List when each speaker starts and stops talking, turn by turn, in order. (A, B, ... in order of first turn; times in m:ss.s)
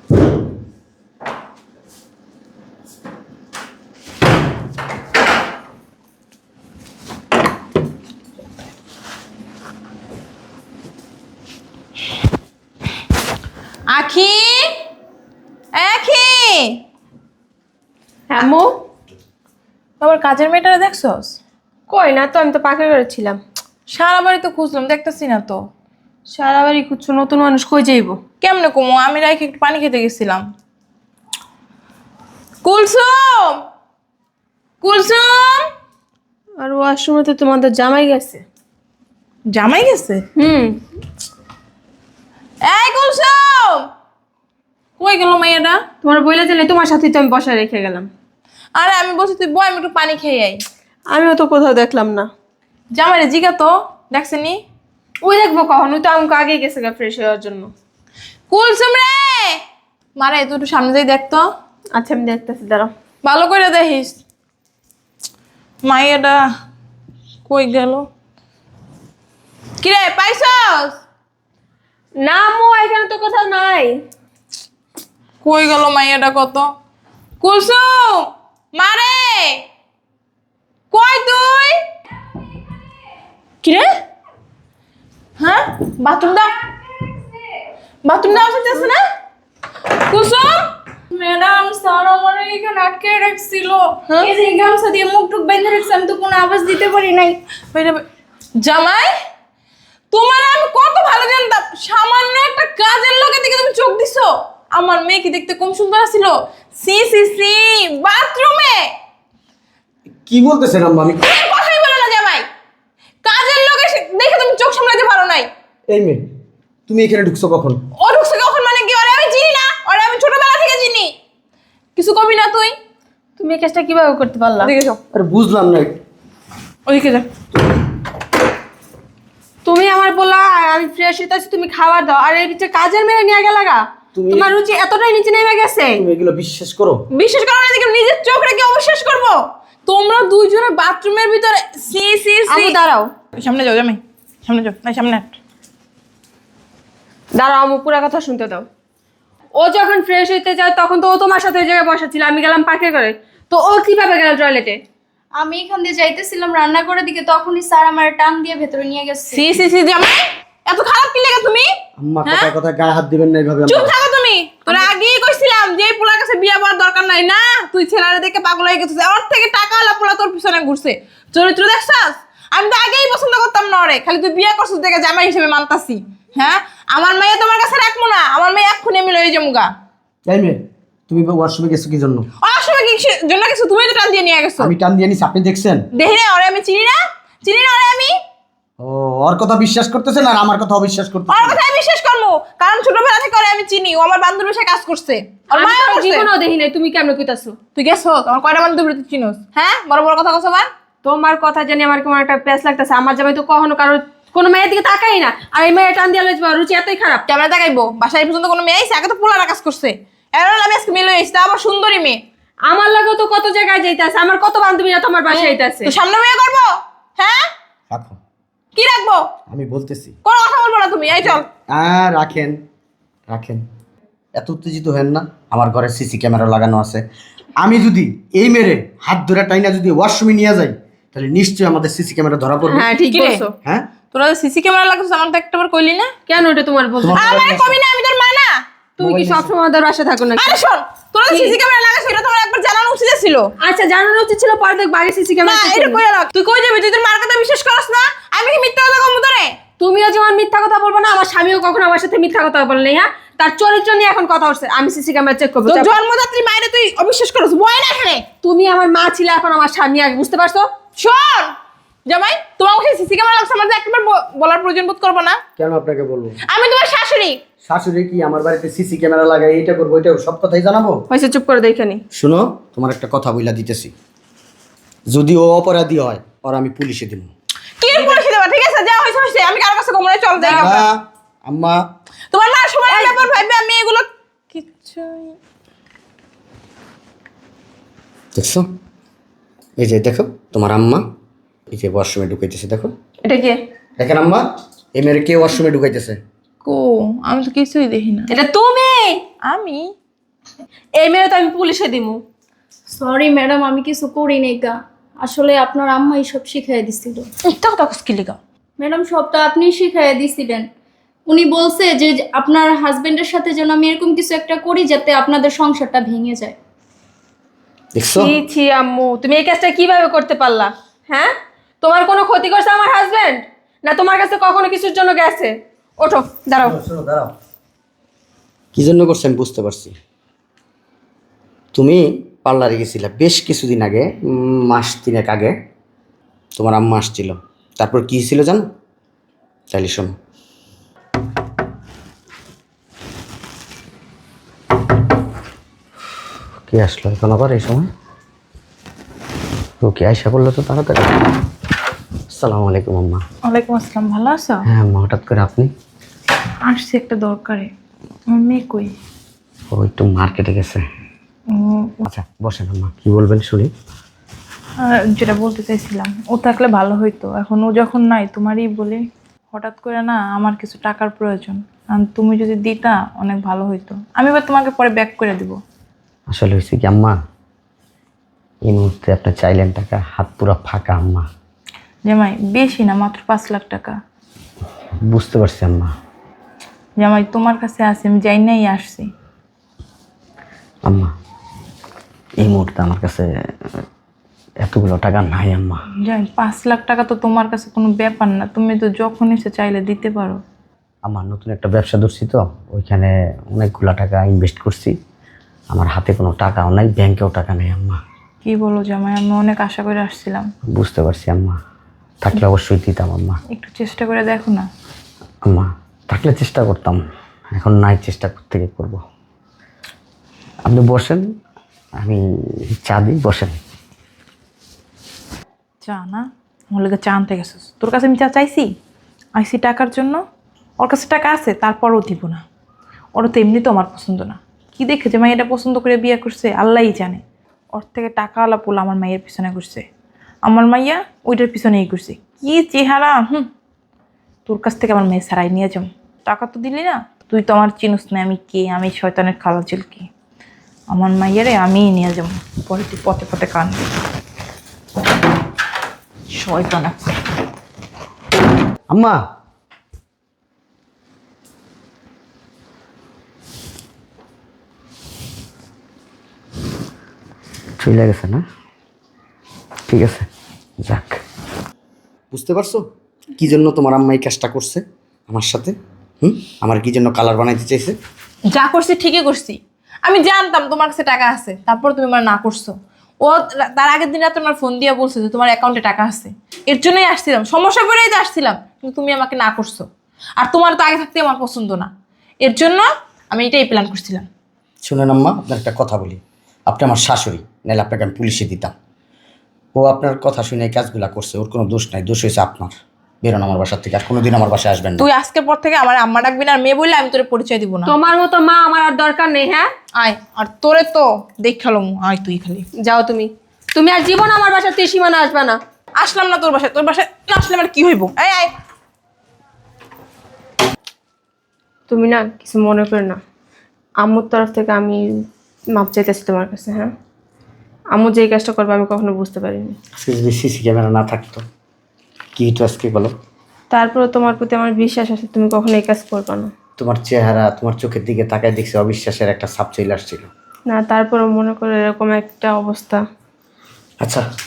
0:13.9-0:14.7 A
0:15.7-0:16.8 A
0:18.3-0:18.7 B
0:20.0-0:21.4 A
0:21.9-0:23.4 B
0:23.9-0:25.6 A
0:26.3-0:28.2 B
0:28.4-0:30.4 A
0:32.6-0:33.6 A
0:34.8-0:35.7 A
0:36.6-0:38.4 B
0:39.5-0:40.2 A
0:40.4-0:40.8 B
0:42.6-0:43.8 A
0:45.0-0:45.8 A
0:46.0-0:48.1 B
0:48.8-0:50.6 A
0:51.1-0:52.3 B
0:52.9-0:54.6 A
0:55.2-0:57.7 B
0:58.5-0:59.6 A
1:00.2-1:01.4 A
1:01.9-1:02.9 B
1:03.2-1:04.2 A
1:05.8-1:06.4 A
1:07.5-1:08.0 A
1:09.8-1:11.0 A
1:12.2-1:14.0 B
1:15.4-1:16.6 A
1:17.4-1:19.6 A
1:20.9-1:21.8 A
1:25.4-1:26.5 A
1:28.0-1:29.0 A
1:30.1-1:30.7 A
1:31.1-1:37.4 C
1:37.7-1:38.0 A
1:38.6-1:39.1 A
1:40.1-1:48.9 A
1:50.2-1:51.2 D
1:51.2-1:52.4 A
1:53.2-1:55.5 A
1:55.9-1:56.2 D
1:56.9-1:57.8 D
1:58.0-2:01.1 A
2:02.0-2:02.7 A
2:03.4-2:04.7 B
2:04.6-2:04.9 A
2:05.1-2:05.9 D
2:06.9-2:07.2 A
2:09.6-2:16.0 B
2:14.1-2:14.5 D
2:16.0-2:17.0 D
2:17.1-2:22.8 A
2:22.5-2:23.1 B
2:23.4-2:25.4 A
2:27.4-2:28.7 B
2:29.6-2:34.8 B
2:35.4-2:39.5 C
2:39.3-2:41.7 A
2:42.0-2:43.9 D
2:42.2-2:42.5 A
2:43.7-2:59.7 A
3:00.3-3:02.2 D
3:02.4-3:04.7 A
3:04.6-3:05.8 D
3:05.9-3:08.1 A
3:08.8-3:11.6 D
3:11.3-3:16.2 A
3:15.5-3:17.6 B
3:17.7-3:20.7 A
3:21.0-3:27.2 B
3:27.3-3:32.2 A
3:32.7-3:35.9 B
3:35.3-3:37.4 A
3:37.9-3:38.2 D
3:38.7-3:39.2 A
3:39.5-3:40.1 D
3:40.2-3:41.4 A
3:41.2-3:42.6 D
3:43.3-3:43.6 D
3:44.4-3:47.0 D
3:47.6-3:52.9 D
3:52.7-3:53.5 B
3:53.1-3:53.4 A
3:54.1-3:56.1 A
3:56.3-3:57.2 B
3:57.0-3:57.8 D
3:57.1-3:58.6 A
3:59.0-4:00.6 B
3:59.0-3:59.5 D
4:00.4-4:03.5 A
4:01.3-4:01.6 B
4:03.6-4:06.0 B
4:05.4-4:09.5 A
4:09.8-4:15.9 B
4:15.7-4:18.2 A
4:18.4-4:20.7 B
4:21.0-4:21.5 A
4:22.1-4:25.4 A
4:25.6-4:26.4 D
4:26.5-4:27.4 A
4:27.6-4:31.0 D
4:31.1-4:32.0 B
4:32.1-4:33.9 D
4:35.1-4:37.3 D
4:37.8-4:40.8 A
4:40.4-4:40.8 B
4:40.5-4:41.8 D
4:42.3-4:45.3 A
4:42.9-4:43.3 B
4:48.3-4:48.6 D
4:49.8-4:51.0 D
4:51.7-4:52.9 D
4:53.2-4:53.6 B
4:54.0-4:54.4 D
4:54.9-4:56.2 D
4:56.6-4:58.3 A
4:58.3-4:59.2 B
4:59.4-4:59.9 A
5:01.0-5:02.2 B
5:02.9-5:07.3 C
5:07.4-5:08.4 A
5:08.8-5:10.6 C
5:11.3-5:16.6 C
5:17.9-5:18.3 D
5:18.2-5:26.7 B
5:26.6-5:27.3 D
5:28.7-5:29.9 D
5:31.7-5:35.5 D
5:36.6-5:38.6 D
5:39.7-5:40.1 D
5:46.7-5:47.9 D
5:49.8-5:51.3 D
5:52.3-5:53.2 D
5:53.4-5:54.6 A
5:54.6-5:55.7 D
5:56.7-5:57.7 A
5:58.3-5:58.9 A
5:59.7-6:00.8 D
6:01.5-6:02.0 A
6:02.0-6:03.7 D
6:04.8-6:15.6 A
6:16.3-6:17.2 D
6:18.6-6:21.3 D
6:22.1-6:23.9 A
6:25.0-6:25.9 D
6:27.0-6:29.1 A
6:30.8-6:31.1 D
6:32.4-6:33.2 D
6:34.6-6:35.8 D
6:36.0-6:40.4 A
6:41.0-6:44.9 D
6:45.7-6:48.0 D
6:48.4-6:50.5 A
6:50.7-6:51.6 D
6:52.2-6:53.4 D
6:53.5-6:54.7 A
6:55.5-6:57.0 D
6:57.5-6:59.0 D
7:00.6-7:01.2 D
7:02.8-7:03.5 D
7:05.8-7:08.7 A
7:09.4-7:10.2 A
7:10.8-7:12.4 A
7:13.2-7:17.2 A
7:17.7-7:19.8 A
7:20.4-7:23.5 A
7:24.5-7:30.1 A
7:30.9-7:33.8 A
7:36.3-7:37.1 A
7:38.9-7:39.2 D
7:47.8-7:48.4 D
7:49.9-7:50.3 D
7:50.8-7:51.2 D
7:52.3-7:52.8 D
7:53.4-7:58.0 D
7:58.5-8:09.8 A
8:10.4-8:11.9 A
8:12.4-8:14.3 A
8:14.8-8:18.7 D
8:19.8-8:25.1 D
8:25.0-8:27.9 A
8:27.8-8:29.7 B
8:29.9-8:32.6 A
8:32.8-8:35.6 B
8:36.0-8:38.5 A
8:41.9-8:43.2 B
8:44.0-8:45.0 B
8:45.7-8:46.9 B
8:47.9-8:49.8 B
8:50.0-8:51.4 D
8:52.4-8:53.1 D
8:53.7-8:56.5 B
8:56.8-9:00.3 D
9:00.7-9:03.0 B